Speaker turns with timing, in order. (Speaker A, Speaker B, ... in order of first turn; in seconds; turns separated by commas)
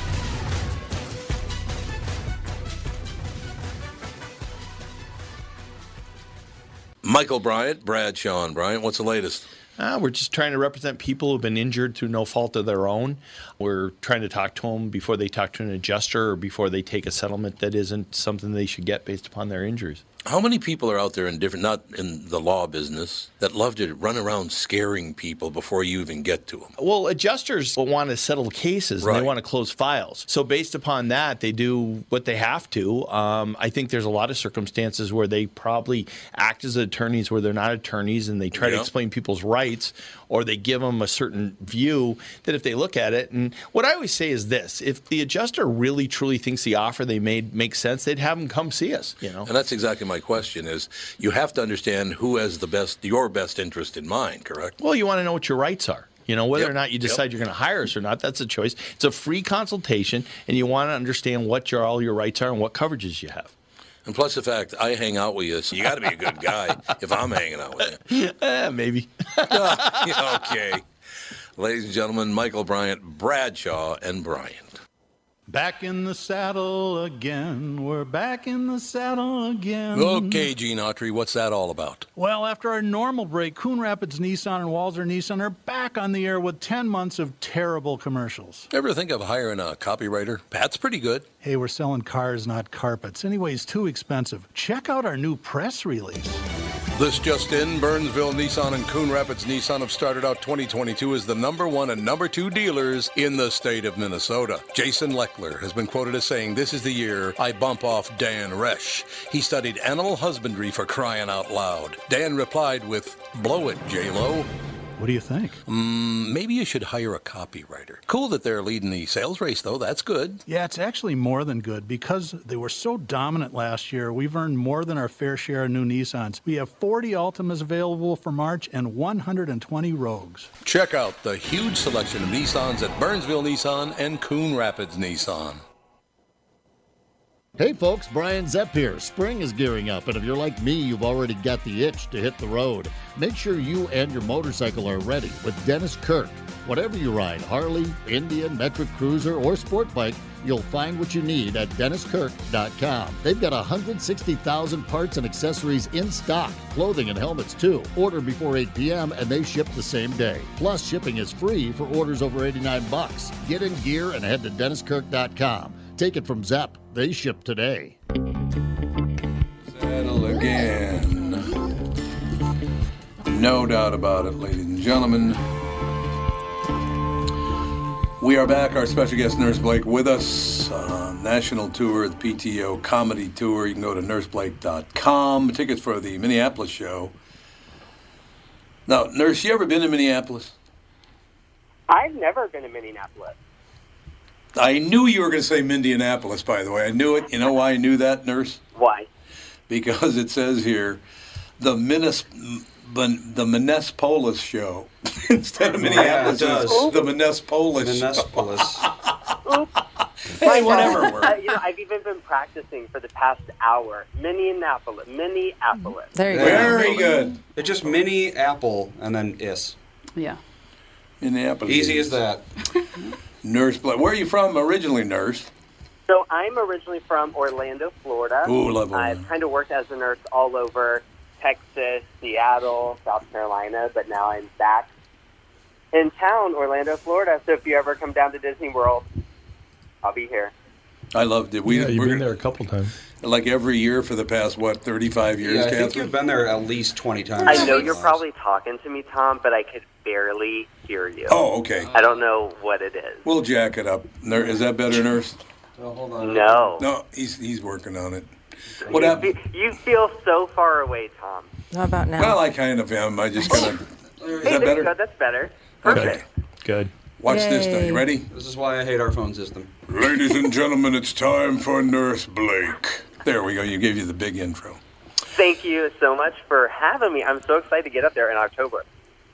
Speaker A: 7.0-9.5, Speaker B: 9.8-20.0, Speaker A: 20.2-26.7, Speaker B: 26.8-49.5, Speaker A: 29.0-29.3, Speaker A: 38.5-38.9, Speaker A: 49.4-54.8, Speaker B: 54.8-63.5, Speaker A: 56.5-57.2, Speaker A: 64.1-68.0, Speaker B: 68.0-70.4, Speaker A: 69.4-70.8, Speaker A: 71.6-74.8, Speaker C: 75.5-80.5, Speaker A: 79.9-82.1, Speaker C: 82.2-88.7, Speaker A: 88.7-91.3, Speaker C: 91.4-96.4, Speaker A: 97.0-114.5, Speaker C: 115.0-115.6, Speaker A: 115.7-120.4, Speaker C: 120.5-130.5, Speaker A: 130.6-135.6, Speaker D: 137.6-168.0, Speaker A: 169.7-171.6, Speaker A: 173.2-175.4, Speaker A: 178.2-187.1, Speaker A: 188.9-190.5, Speaker E: 191.9-193.4, Speaker A: 194.6-198.6, Speaker E: 198.8-199.1, Speaker A: 199.7-201.0, Speaker A: 201.6-209.1, Speaker F: 205.8-207.1, Speaker E: 206.6-206.9, Speaker F: 207.8-208.9, Speaker E: 209.4-209.7, Speaker A: 210.3-211.3, Speaker E: 210.4-216.1, Speaker G: 216.1-217.0, Speaker F: 216.3-219.8, Speaker A: 216.3-217.4, Speaker A: 221.2-222.2, Speaker F: 221.7-222.4, Speaker A: 223.4-225.5, Speaker E: 226.1-234.9, Speaker A: 228.4-229.3, Speaker E: 235.9-239.1, Speaker E: 240.0-240.5, Speaker A: 241.1-242.4, Speaker B: 241.7-242.9, Speaker A: 243.2-246.1, Speaker F: 245.4-248.2, Speaker E: 247.4-251.4, Speaker A: 251.3-251.9, Speaker E: 251.9-253.3, Speaker A: 253.2-255.4, Speaker F: 255.8-256.8, Speaker E: 256.2-256.8, Speaker A: 256.8-258.3, Speaker F: 258.9-259.2, Speaker E: 258.9-261.5, Speaker A: 258.9-259.3, Speaker G: 261.7-262.4, Speaker A: 262.2-263.9, Speaker F: 264.2-264.7, Speaker A: 264.4-264.9, Speaker E: 264.4-266.2, Speaker A: 265.9-266.2, Speaker B: 265.9-266.9, Speaker A: 267.2-268.3, Speaker G: 267.3-268.1, Speaker F: 268.3-269.7, Speaker A: 269.9-274.8, Speaker E: 275.3-278.9